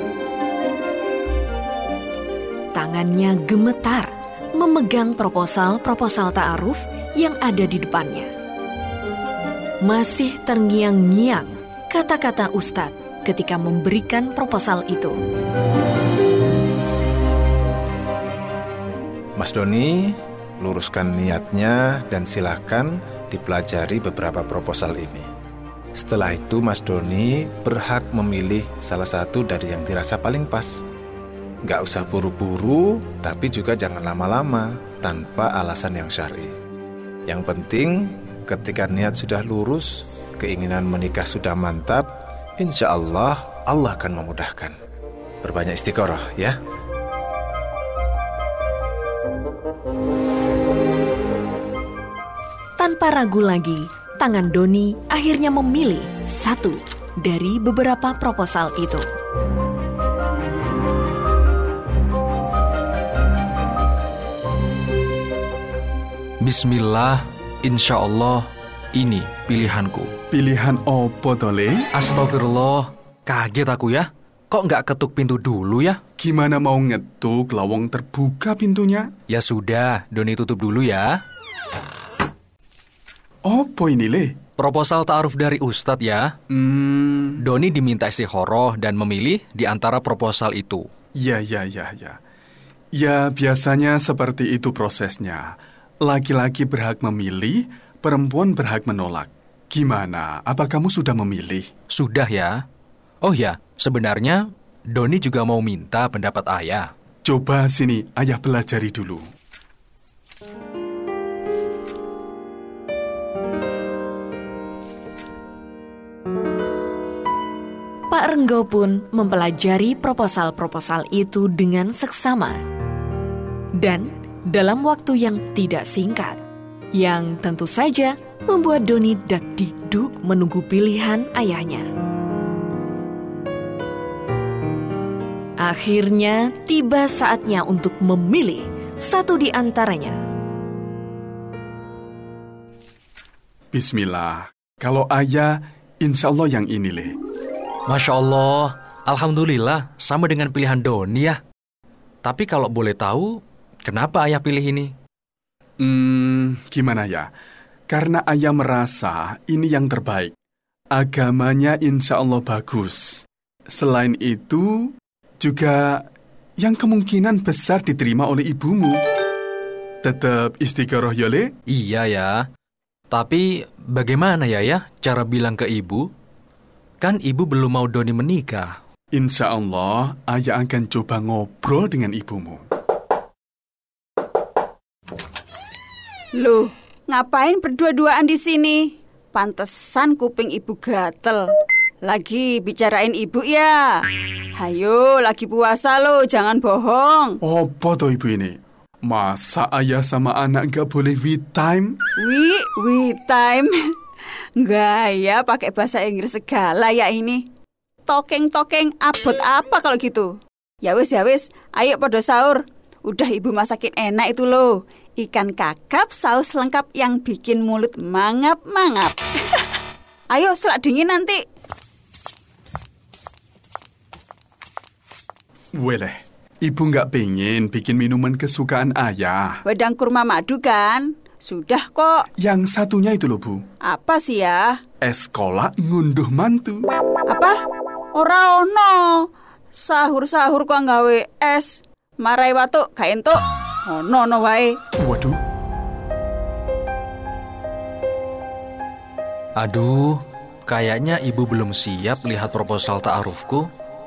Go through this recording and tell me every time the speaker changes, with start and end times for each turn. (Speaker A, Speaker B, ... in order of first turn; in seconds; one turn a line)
Speaker A: 2.7-8.3
Speaker A: 9.8-15.2
Speaker B: 19.4-25.3
Speaker B: 25.9-30.9
Speaker B: 31.6-36.5
Speaker B: 37.3-42.1
Speaker B: 42.6-44.8
Speaker B: 45.4-46.6
Speaker A: 52.8-59.0
Speaker C: 66.4-70.1
Speaker D: 70.3-71.9
Speaker C: 71.9-76.0
Speaker D: 76.2-79.1
Speaker C: 79.3-81.2
Speaker D: 83.5-84.4
Speaker C: 84.6-86.3
Speaker D: 86.5-87.4
Speaker C: 87.4-90.9
Speaker D: 91.2-92.2
Speaker D: 93.0-101.7
Speaker C: 101.9-102.6
Speaker C: 103.2-106.9
Speaker D: 107.2-109.3
Speaker A: 118.1-122.6
Speaker A: 123.8-126.4
Speaker A: 126.9-131.9
Speaker A: 135.6-140.2
Speaker D: 143.7-147.2
Speaker C: 147.9-151.4
Speaker C: 152.2-154.9
Speaker D: 155.8-157.3
Speaker D: 157.9-160.3
Speaker D: 161.0-166.1
Speaker D: 166.6-169.0
Speaker D: 170.0-171.5
Speaker C: 171.7-172.4
Speaker C: 173.1-176.1
Speaker C: 177.0-178.8
Speaker D: 179.1-182.6
Speaker E: 186.4-188.8
Speaker E: 189.3-191.4
Speaker E: 192.1-193.9
Speaker E: 194.6-197.3
Speaker D: 197.4-202.0
Speaker E: 202.2-203.7
Speaker E: 204.6-207.4
Speaker E: 208.1-210.3
Speaker E: 210.8-219.6
Speaker E: 220.3-221.4
Speaker D: 225.8-229.6
Speaker E: 229.7-232.2
Speaker D: 232.4-233.7
Speaker E: 233.9-234.8
Speaker D: 235.0-236.9
Speaker E: 237.3-237.6
Speaker E: 238.2-239.2
Speaker E: 239.8-244.8
Speaker D: 245.0-245.4
Speaker C: 249.6-253.7